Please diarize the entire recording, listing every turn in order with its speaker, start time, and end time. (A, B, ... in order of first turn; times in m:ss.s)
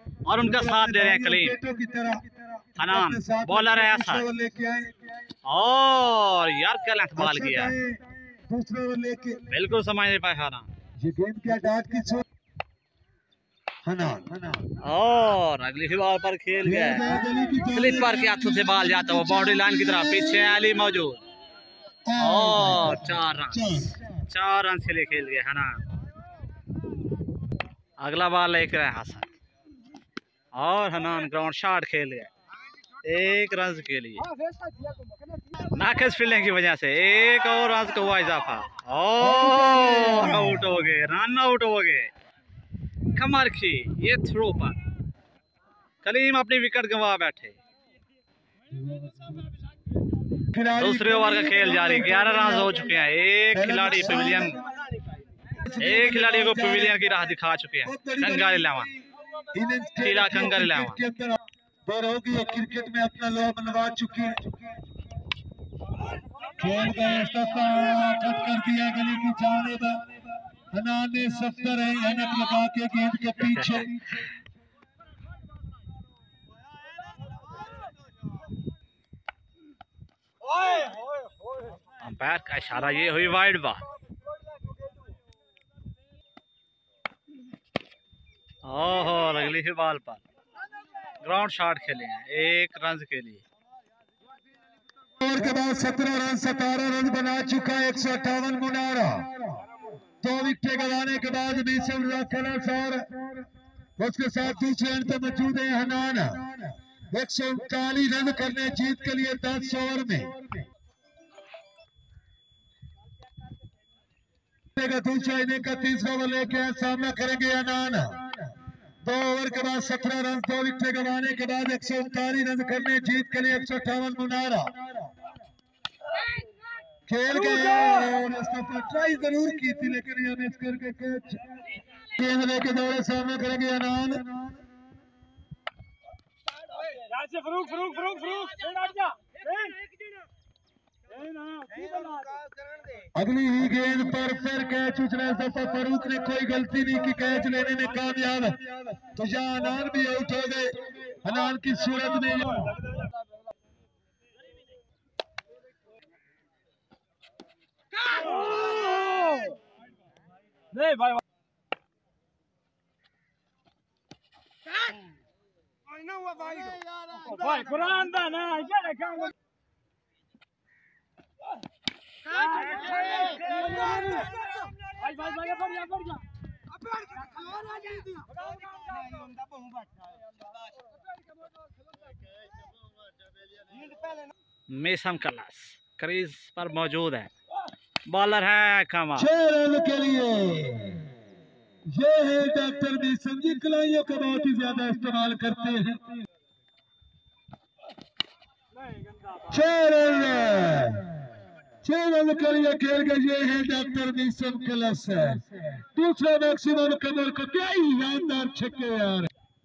0:00.3-0:01.6 A
0:00.3-0:05.0 B
0:02.8-0:04.2 A
0:05.5-0:07.8 A
0:07.2-0:09.4 B
0:09.5-0:10.7 A
0:11.0-0:12.2 B
0:13.8-0:14.7 B
0:14.8-0:17.1 A
0:16.6-0:20.7 B
0:17.7-0:21.2 A
0:22.1-0:24.1 B
0:22.2-0:23.7 A
0:24.3-0:25.8 A
0:28.0-0:29.3 A
0:30.5-0:32.3 A
0:33.0-0:34.3 A
0:34.2-0:35.7 C
0:35.8-0:42.1 A
0:39.2-0:40.8 B
0:43.2-0:44.8 A
0:46.0-0:47.6 A
0:48.7-0:49.5 B
0:50.5-0:52.9 B
0:50.8-0:54.6 A
0:53.5-0:54.7 B
0:55.6-0:57.0 B
0:55.8-0:58.9 A
0:57.8-1:04.5 B
1:00.0-1:01.0 A
1:06.6-1:14.2 B
1:13.4-1:13.9 A
1:22.0-1:23.9 A
1:28.6-1:30.2 A
1:31.2-1:33.4 A
1:35.2-1:39.4 B
1:40.2-1:43.1 B
1:44.0-1:50.4 B
1:54.8-1:58.3 B
1:59.0-2:04.8 B
2:07.1-2:14.6 B
2:16.8-2:19.8 C
2:21.1-2:22.4 C
2:23.2-2:32.7 B
2:38.0-2:39.6 C
2:40.7-2:41.2 C
2:46.4-2:49.3 C
2:52.3-2:56.2 C
2:57.0-2:58.3 C
3:04.7-3:07.3 A
3:08.1-3:09.3 A
3:09.2-3:11.0 B
3:11.9-3:16.1 B
3:19.5-3:21.1 B
3:21.8-3:29.3 B